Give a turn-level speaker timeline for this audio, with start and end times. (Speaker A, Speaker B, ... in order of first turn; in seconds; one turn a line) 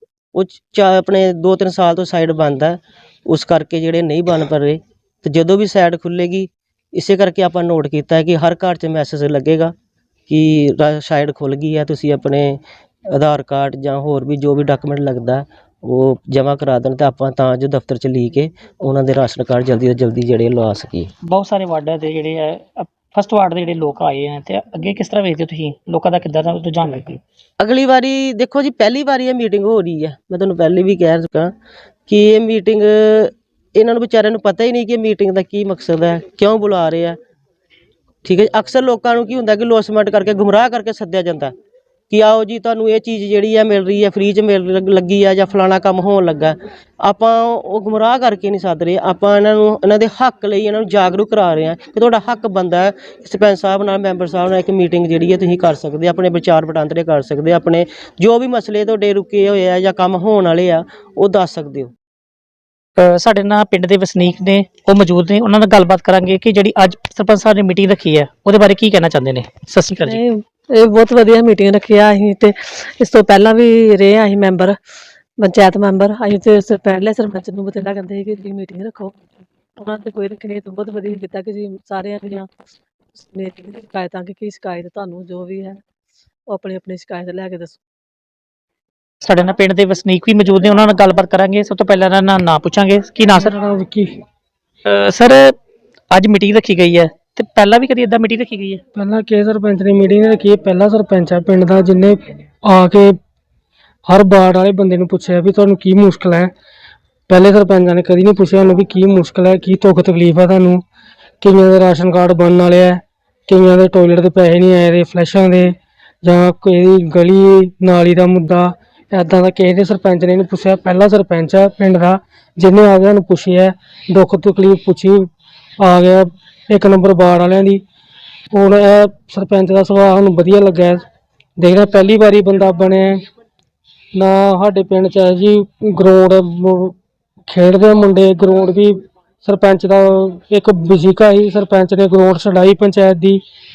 Speaker A: 0.3-9.7
Speaker A: 10.3-21.1
Speaker B: 21.2-27.2
Speaker A: 27.6-31.5
Speaker A: 32.1-37.2
Speaker A: 38.2-41.5
Speaker A: 42.1-61.9
Speaker B: 63.0-70.2
Speaker C: 70.0-74.8
Speaker C: 75.4-79.2
Speaker C: 79.8-82.5
Speaker C: 83.2-85.8
Speaker C: 86.5-87.8
Speaker B: 89.2-93.5
Speaker D: 93.3-94.2
Speaker B: 94.8-95.5
Speaker B: 96.1-98.8
Speaker D: 98.9-103.2
Speaker D: 104.0-106.5
Speaker D: 107.3-110.8
Speaker D: 111.4-127.8
Speaker D: 128.5-131.0
Speaker D: 131.6-133.2
Speaker D: 134.1-137.0
Speaker D: 137.5-143.4